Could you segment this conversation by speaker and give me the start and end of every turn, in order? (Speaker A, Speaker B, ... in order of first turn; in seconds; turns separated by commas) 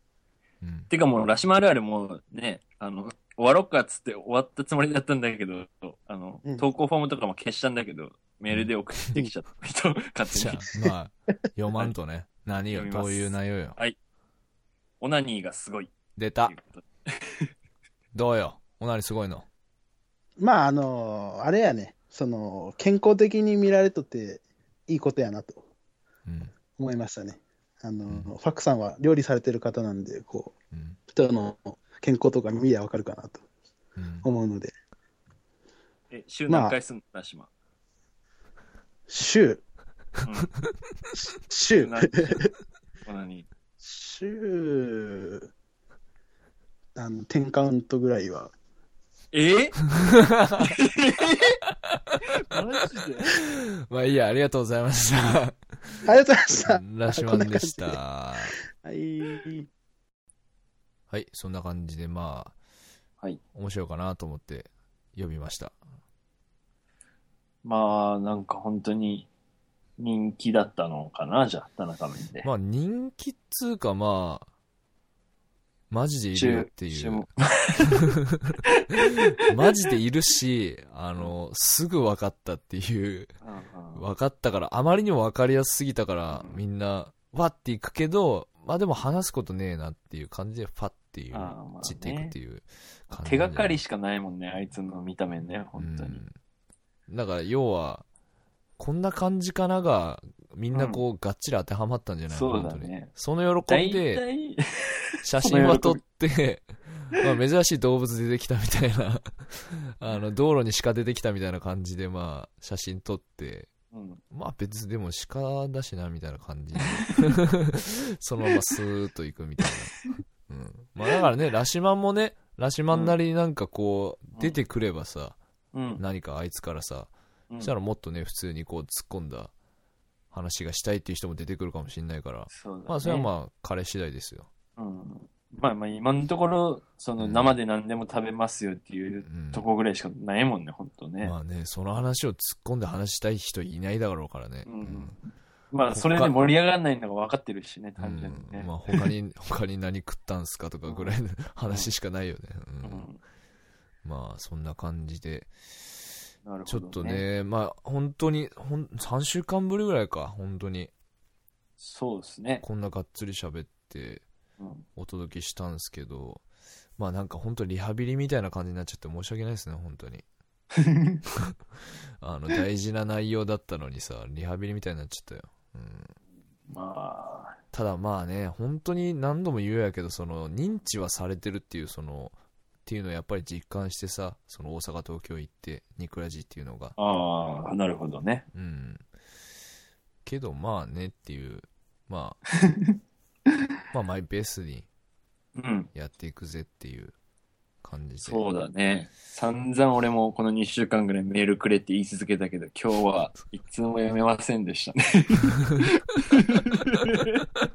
Speaker A: 0.6-0.9, Speaker B: 0.9-10.7, Speaker A: 10.3-13.8, Speaker B: 12.7-14.0, Speaker B: 15.0-15.9, Speaker A: 16.2-16.6, Speaker B: 16.4-17.5, Speaker A: 18.1-19.5, Speaker C: 20.4-25.6, Speaker A: 26.3-26.5, Speaker C: 26.8-30.6, Speaker A: 28.1-28.3, Speaker A: 30.7-31.0, Speaker C: 31.1-33.4, Speaker A: 34.0-34.3, Speaker C: 34.2-34.7, Speaker B: 36.1-37.5, Speaker C: 36.5-36.8, Speaker C: 39.1-39.6, Speaker B: 40.2-40.5, Speaker C: 41.3-42.5, Speaker B: 41.8-42.4, Speaker B: 43.1-43.5, Speaker C: 43.8-45.5, Speaker C: 47.0-48.5, Speaker B: 49.3-49.8, Speaker A: 50.0-50.8, Speaker B: 50.6-51.6, Speaker A: 51.8-52.2, Speaker B: 52.5-53.4, Speaker A: 53.2-55.6, Speaker C: 56.0-58.0, Speaker A: 56.5-58.5, Speaker C: 58.8-59.7, Speaker A: 61.1-62.5, Speaker A: 63.5-65.8, Speaker B: 67.6-69.3, Speaker B: 70.0-72.5, Speaker A: 72.4-74.5, Speaker A: 75.9-77.3, Speaker B: 76.3-78.1, Speaker A: 79.4-83.3, Speaker B: 83.4-84.0, Speaker A: 84.0-93.8, Speaker B: 86.3-86.6, Speaker B: 91.3-92.3, Speaker B: 93.1-96.2, Speaker A: 95.8-96.3, Speaker A: 97.1-98.0, Speaker A: 98.8-104.2, Speaker B: 100.7-101.0, Speaker B: 102.3-103.1, Speaker B: 103.7-106.0, Speaker A: 105.2-113.7, Speaker B: 113.9-114.2, Speaker A: 114.3-125.4, Speaker B: 122.9-123.2, Speaker B: 125.7-126.0, Speaker A: 126.0-129.5, Speaker A: 130.3-134.5, Speaker B: 132.5-133.3, Speaker B: 134.8-141.3, Speaker A: 137.2-137.6, Speaker A: 139.2-139.7, Speaker A: 141.2-145.2, Speaker B: 144.7-145.2, Speaker B: 145.7-149.1, Speaker A: 145.9-146.6, Speaker A: 148.0-153.1, Speaker B: 150.9-151.1, Speaker B: 152.8-153.2, Speaker A: 154.0-155.5, Speaker B: 156.4-157.2, Speaker A: 156.7-160.9, Speaker B: 161.8-162.6, Speaker A: 162.6-164.2, Speaker B: 164.6-164.9, Speaker A: 165.0-166.4, Speaker A: 167.0-170.2, Speaker B: 170.8-171.2, Speaker A: 172.2-176.2, Speaker B: 176.7-177.6, Speaker A: 177.7-187.0, Speaker B: 187.0-188.5, Speaker A: 188.5-189.1, Speaker A: 190.2-192.4, Speaker B: 192.7-193.0, Speaker A: 193.9-194.9, Speaker B: 195.6-195.9, Speaker A: 195.9-197.1, Speaker A: 197.8-198.4, Speaker B: 198.2-207.4